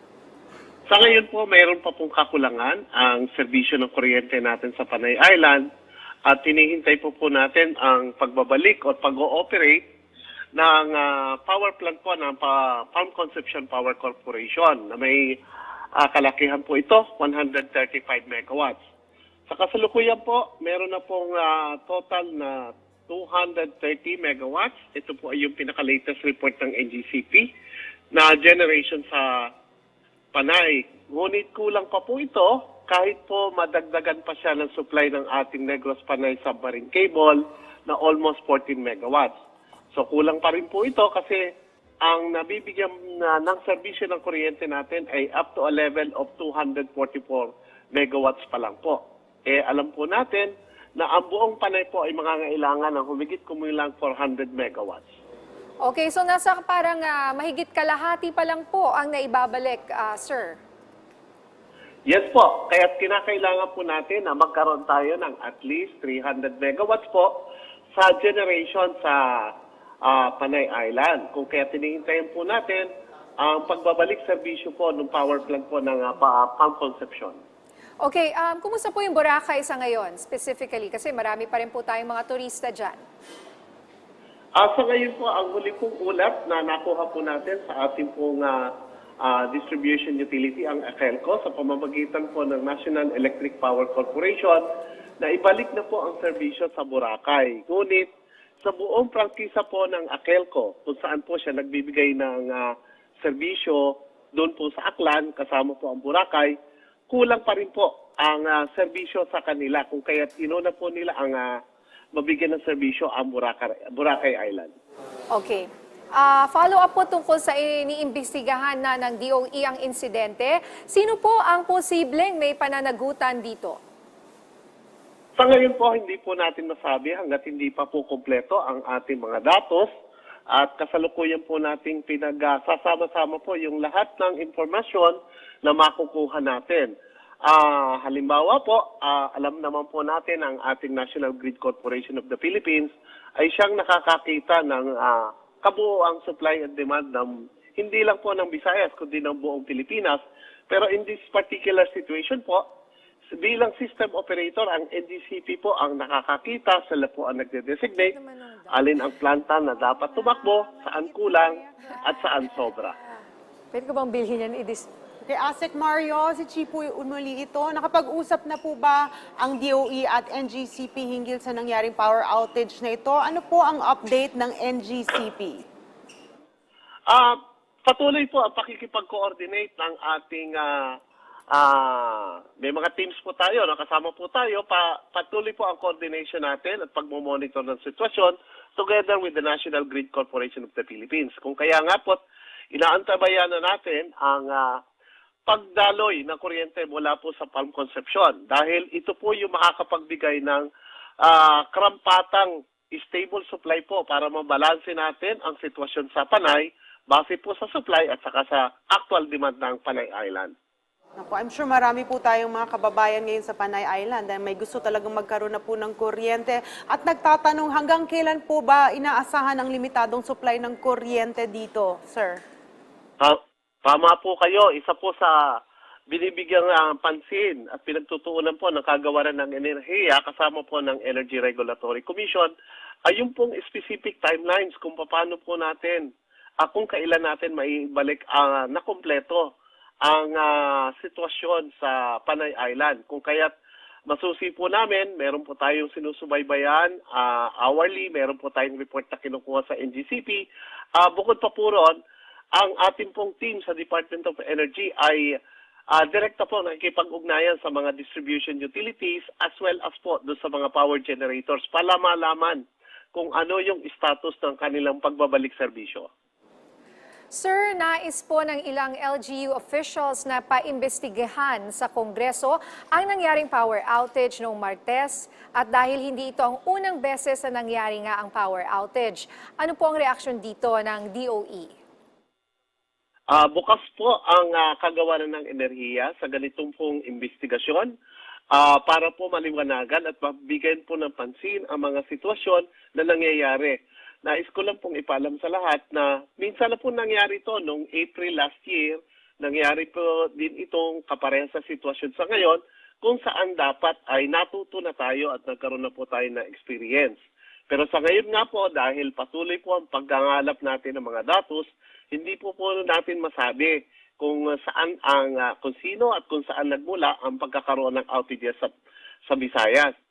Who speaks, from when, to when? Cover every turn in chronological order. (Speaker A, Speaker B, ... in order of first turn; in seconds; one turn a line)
Speaker A: 0.9-5.6
Speaker A: 6.3-9.8
Speaker A: 10.6-15.3
Speaker A: 16.0-18.8
Speaker A: 19.5-27.5
Speaker A: 28.1-29.2
Speaker A: 30.3-39.3
Speaker A: 39.9-41.4
Speaker A: 42.0-55.0
Speaker B: 55.8-60.6
Speaker A: 62.1-67.3
Speaker A: 68.0-69.2
Speaker A: 70.0-72.9
Speaker A: 73.4-77.4
Speaker B: 78.0-83.0
Speaker A: 84.6-88.6
Speaker A: 89.2-94.6
Speaker A: 95.2-98.1
Speaker A: 98.6-103.8
Speaker A: 104.3-106.5
Speaker A: 107.1-111.5
Speaker A: 112.1-114.7
Speaker B: 115.3-123.8
Speaker A: 125.4-129.9
Speaker A: 130.5-136.9
Speaker A: 137.5-152.6
Speaker A: 153.4-158.1
Speaker B: 158.1-158.7
Speaker A: 158.7-162.9
Speaker B: 163.7-164.9
Speaker C: 165.2-175.6
Speaker A: 177.1-180.9
Speaker A: 181.5-192.2
Speaker A: 192.7-194.8
Speaker A: 195.5-200.7
Speaker A: 201.2-210.5
Speaker C: 211.2-222.4
Speaker A: 223.2-225.3
Speaker A: 226.1-232.5
Speaker A: 233.1-236.1
Speaker A: 236.6-239.5
Speaker A: 240.1-243.5
Speaker A: 244.1-250.4
Speaker A: 251.0-252.0
Speaker A: 252.6-255.3
Speaker A: 255.9-262.6
Speaker A: 263.1-266.1
Speaker B: 267.3-281.7
Speaker A: 283.3-287.9
Speaker A: 288.5-307.2
Speaker A: 307.7-318.7
Speaker A: 319.3-319.9